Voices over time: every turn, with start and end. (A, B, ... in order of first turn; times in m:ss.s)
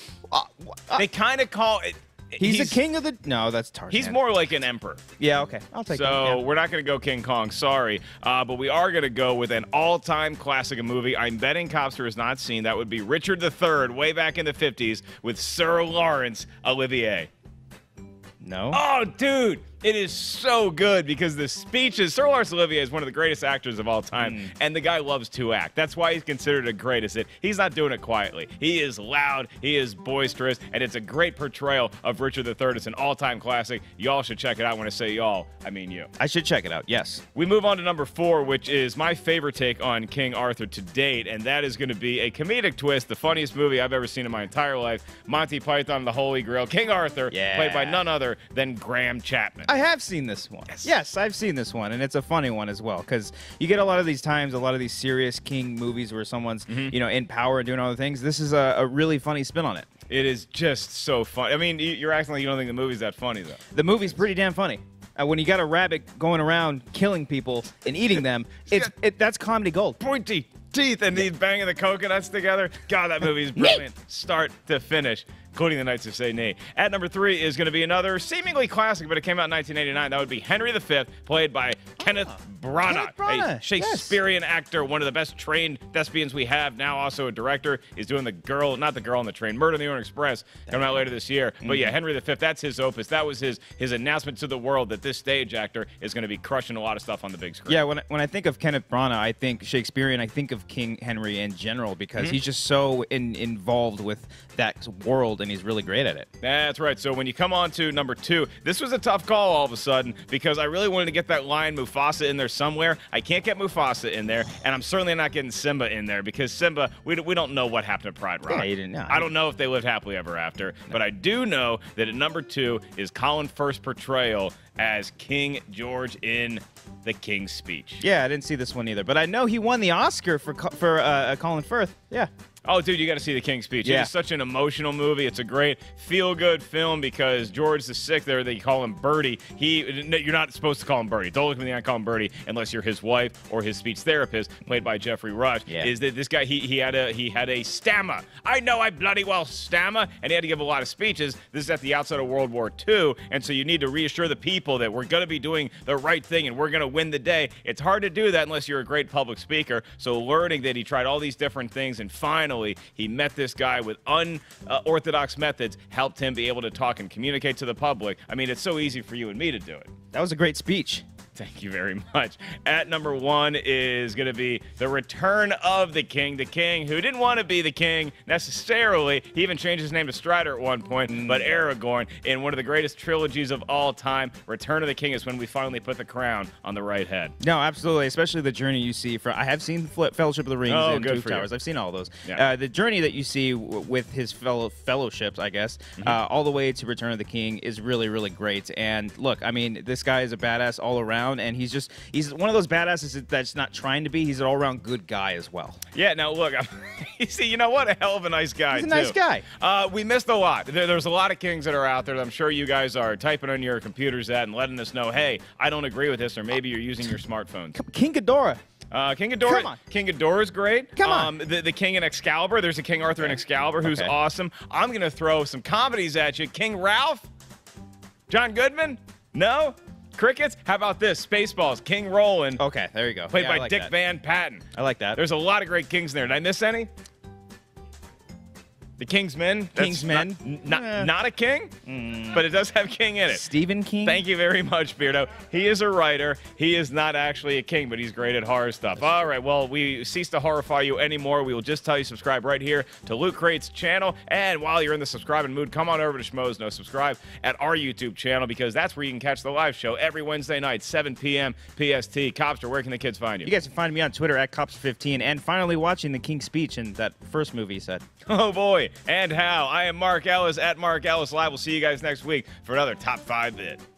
0:00.3-0:01.1 A
0:01.0-0:02.8 B
0:02.4-0:04.2 A
0:03.9-0:05.0 B
0:05.2-0:06.4 A
0:05.9-0:17.3 B
0:18.4-0:18.8 A
0:18.7-0:36.1 B
0:24.2-0:24.5 A
0:36.2-0:37.2 A
0:37.3-0:49.7 B
0:47.3-0:48.0 A
0:49.7-0:59.9 A
0:56.7-0:56.9 B
1:00.1-1:03.6 B
1:03.7-1:10.0 A
1:10.0-1:37.8 B
1:13.6-1:13.8 A
1:22.9-1:24.2 A
1:30.7-1:31.0 A
1:31.6-1:32.0 A
1:37.7-1:46.3 A
1:46.4-2:08.0 B
1:58.5-1:59.3 A
2:08.0-2:12.3 A
2:12.6-2:49.9 B
2:13.8-2:14.1 A
2:50.1-2:51.0 A
2:51.4-3:07.3 B
3:01.1-3:01.6 A
3:07.4-3:25.8 A
3:10.7-3:11.5 B
3:25.9-3:37.8 B
3:28.7-3:29.5 A
3:37.7-3:38.6 A
3:38.9-3:47.3 B
3:39.4-3:39.8 A
3:41.0-3:41.3 A
3:43.2-3:44.1 A
3:48.3-3:52.6 B
3:52.6-3:53.9 A
3:53.3-3:56.9 B
3:54.8-3:55.2 A
3:59.0-4:01.7 B
3:59.8-4:01.1 A
4:01.9-4:02.4 A
4:02.3-4:03.5 B
4:03.3-4:04.2 A
4:04.0-4:23.5 B
4:23.4-4:28.0 A
4:28.3-4:33.8 B